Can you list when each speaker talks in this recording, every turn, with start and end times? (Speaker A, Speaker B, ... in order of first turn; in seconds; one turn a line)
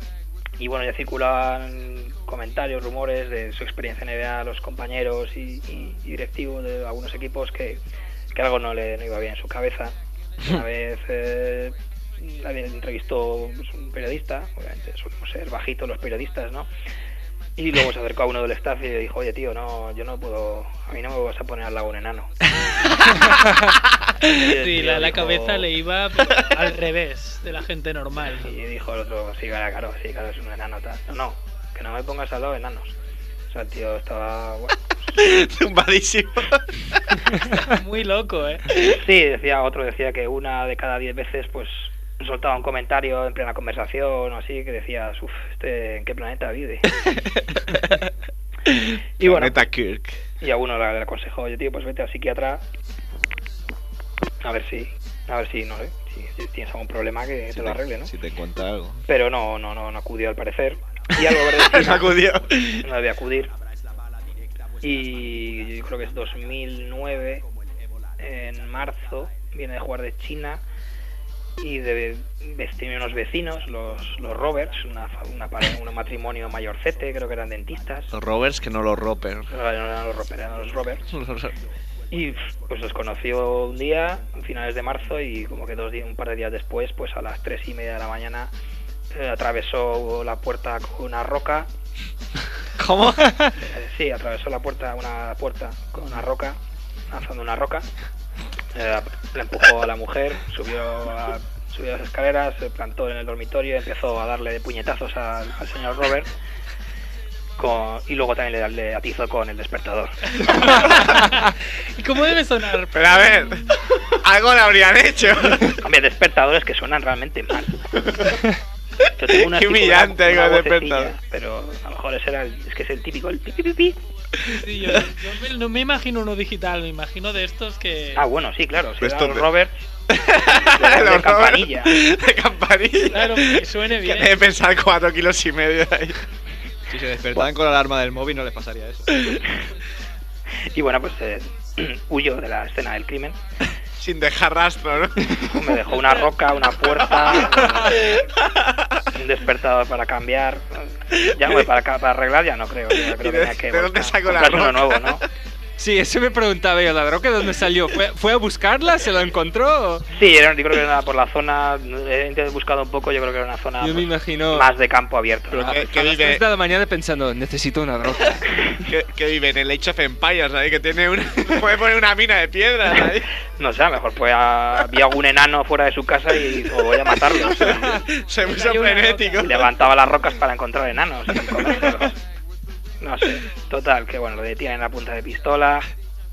Speaker A: 0.6-7.8
Speaker A: 8.3-16.7
Speaker A: 17.6-22.3
Speaker A: 24.3-25.7
Speaker B: 24.3-28.5
Speaker A: 28.4-33.0
Speaker A: 33.5-34.9
Speaker C: 35.2-37.0
Speaker B: 37.6-38.7
Speaker A: 38.9-46.9
Speaker C: 47.1-48.1
Speaker C: 48.7-50.2
Speaker A: 49.2-49.7
Speaker A: 50.4-52.6
Speaker A: 54.4-58.1
Speaker C: 57.5-59.0
Speaker A: 59.1-62.2
Speaker C: 61.4-62.9
Speaker A: 62.8-63.5
Speaker A: 64.8-67.4
Speaker A: 68.2-70.6
Speaker A: 71.6-78.1
Speaker C: 78.1-79.5
Speaker A: 79.5-81.1
Speaker C: 81.1-81.5
Speaker A: 82.1-88.5
Speaker A: 89.1-91.7
Speaker C: 92.8-93.4
Speaker A: 93.7-96.6
Speaker A: 97.1-97.9
Speaker A: 98.7-106.3
Speaker A: 107.6-111.0
Speaker B: 110.5-113.6
Speaker C: 112.9-115.8
Speaker A: 115.8-117.8
Speaker A: 119.2-124.0
Speaker C: 119.3-121.1
Speaker B: 124.5-128.3
Speaker A: 128.2-129.8
Speaker C: 129.0-129.5
Speaker C: 130.1-136.2
Speaker A: 130.4-131.9
Speaker B: 133.1-134.3
Speaker D: 136.9-139.1
Speaker A: 140.7-143.4
Speaker C: 144.0-145.5
Speaker A: 145.4-148.1
Speaker C: 147.4-148.0
Speaker C: 148.6-148.8
Speaker A: 149.1-155.2
Speaker C: 151.2-151.6
Speaker C: 153.0-155.2
Speaker E: 155.8-160.1
Speaker A: 160.1-165.8
Speaker E: 163.8-164.7
Speaker C: 165.5-166.4
Speaker E: 165.5-168.5
Speaker C: 168.9-173.3
Speaker A: 173.6-178.0
Speaker C: 177.2-179.8
Speaker B: 178.4-179.4
Speaker A: 179.4-182.2
Speaker A: 183.0-185.9